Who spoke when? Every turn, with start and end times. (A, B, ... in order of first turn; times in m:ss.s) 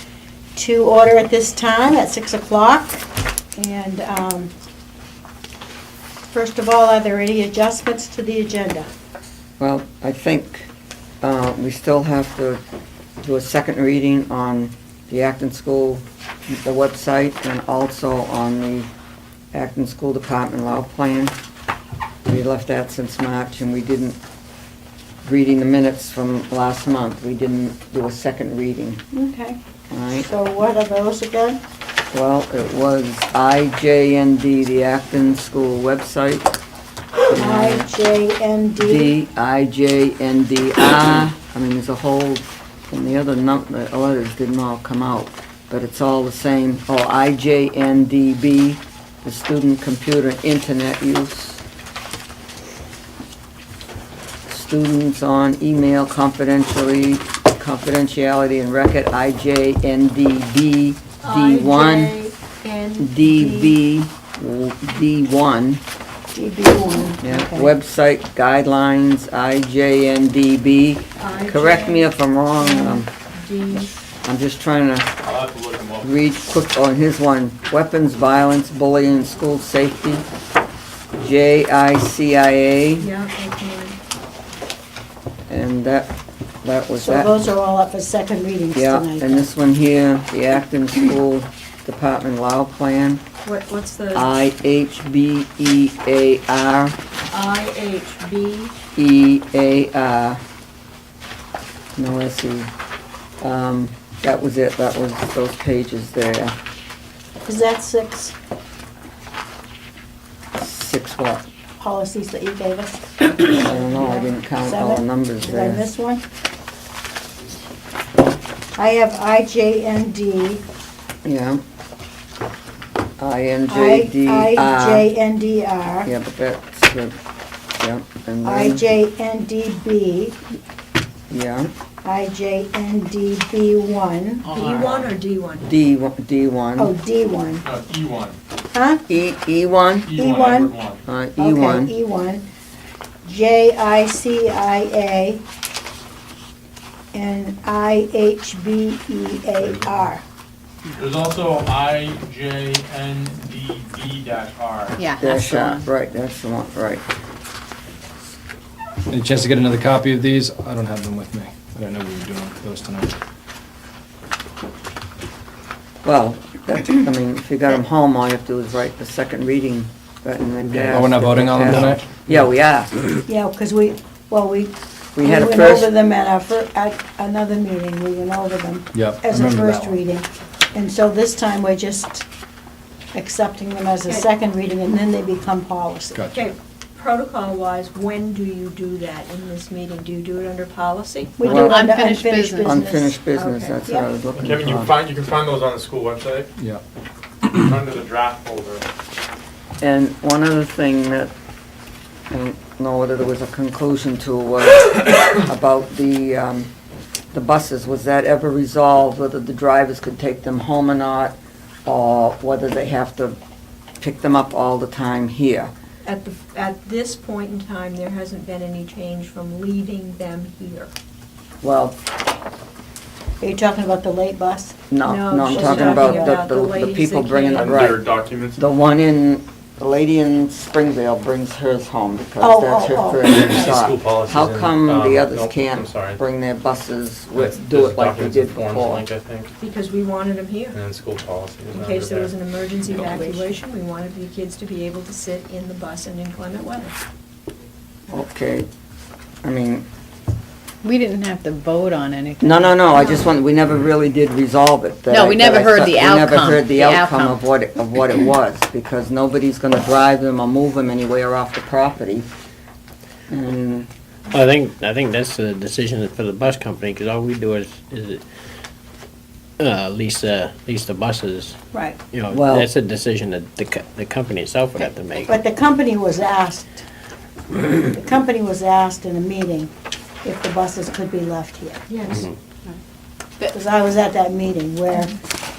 0:00.5-0:04.5 A
0:06.3-0:08.9 A
0:09.6-0:10.7 B
0:11.2-0:12.6 B
0:13.2-0:18.9 B
0:19.5-0:21.3 B
0:22.3-0:24.2 B
0:25.2-0:29.0 B
0:29.1-0:29.6 A
0:29.9-0:30.3 B
0:30.2-0:31.6 A
0:32.1-0:36.5 B
0:37.3-0:37.9 B
0:37.3-0:39.1 A
0:38.8-0:51.6 B
0:54.5-1:02.2 B
1:01.2-1:03.7 C
1:03.0-1:05.8 B
1:06.3-1:07.7 A
1:07.2-1:13.1 B
1:11.2-1:13.9 C
1:14.2-1:15.1 B
1:15.2-1:16.2 D
1:16.0-1:20.2 B
1:21.2-1:23.1 B
1:23.0-1:24.0 C
1:25.5-1:26.1 B
1:26.6-1:27.3 B
1:27.0-1:29.5 A
1:28.7-1:33.2 B
1:33.4-1:34.2 C
1:34.1-1:37.0 B
1:37.3-1:38.7 C
1:39.0-1:40.4 B
1:42.0-1:42.7 B
1:43.4-1:46.6 B
1:47.4-1:48.3 A
1:50.6-1:51.4 B
1:51.8-1:56.2 A
1:53.4-1:55.8 B
1:58.8-2:00.6 A
2:01.2-2:01.6 B
2:03.2-2:05.1 B
2:03.7-2:06.1 A
2:06.0-2:07.2 B
2:07.8-2:08.8 B
2:08.4-2:10.4 A
2:11.3-2:11.7 B
2:12.0-2:14.5 A
2:14.5-2:15.7 C
2:14.5-2:15.2 D
2:15.6-2:16.9 B
2:16.8-2:17.6 A
2:17.6-2:18.4 D
2:18.7-2:19.0 A
2:19.1-2:20.1 B
2:20.0-2:21.0 D
2:20.1-2:20.7 A
2:21.0-2:21.9 B
2:21.4-2:22.4 A
2:23.2-2:25.4 A
2:27.1-2:30.2 A
2:29.6-2:30.0 D
2:30.9-2:35.0 D
2:35.0-2:35.8 E
2:35.2-2:37.0 B
2:39.1-2:43.1 F
2:46.0-2:52.9 B
2:50.7-2:52.2 F
2:53.2-3:02.2 A
2:55.2-2:55.9 B
2:58.9-3:00.0 F
3:03.1-3:06.2 A
3:06.1-3:06.4 F
3:06.3-3:11.6 C
3:11.4-3:13.2 A
3:11.4-3:11.8 B
3:11.6-3:12.8 E
3:12.6-3:14.9 B
3:13.3-3:13.8 C
3:14.3-3:16.5 D
3:16.6-3:16.8 F
3:17.5-3:18.8 D
3:19.8-3:21.3 B
3:22.3-3:26.7 B
3:27.3-3:33.4 B
3:34.0-3:35.7 B
3:36.0-3:40.9 C
3:41.6-3:42.0 B
3:43.4-3:44.8 A
3:44.9-3:48.0 B
3:45.1-3:47.8 C
3:45.4-3:46.4 A
3:47.5-3:48.6 D
3:48.6-3:59.0 B
3:52.4-3:53.6 A
3:53.2-3:56.2 D
3:57.3-3:59.5 D
3:59.6-4:00.8 C
4:00.7-4:03.2 D
4:01.8-4:06.9 C
4:03.2-4:03.5 E
4:08.1-4:08.7 B
4:09.4-4:09.8 B
4:10.8-4:12.9 E
4:12.4-4:22.3 B
4:15.1-4:17.4 E
4:23.3-4:23.9 B
4:24.3-4:28.2 G
4:29.6-4:31.6 G
4:32.1-4:35.3 G
4:32.3-4:32.7 B
4:35.3-4:36.8 A
4:37.8-4:39.7 A
4:40.2-4:41.8 A
4:41.9-4:42.2 C
4:42.1-4:42.4 G
4:43.5-4:45.1 A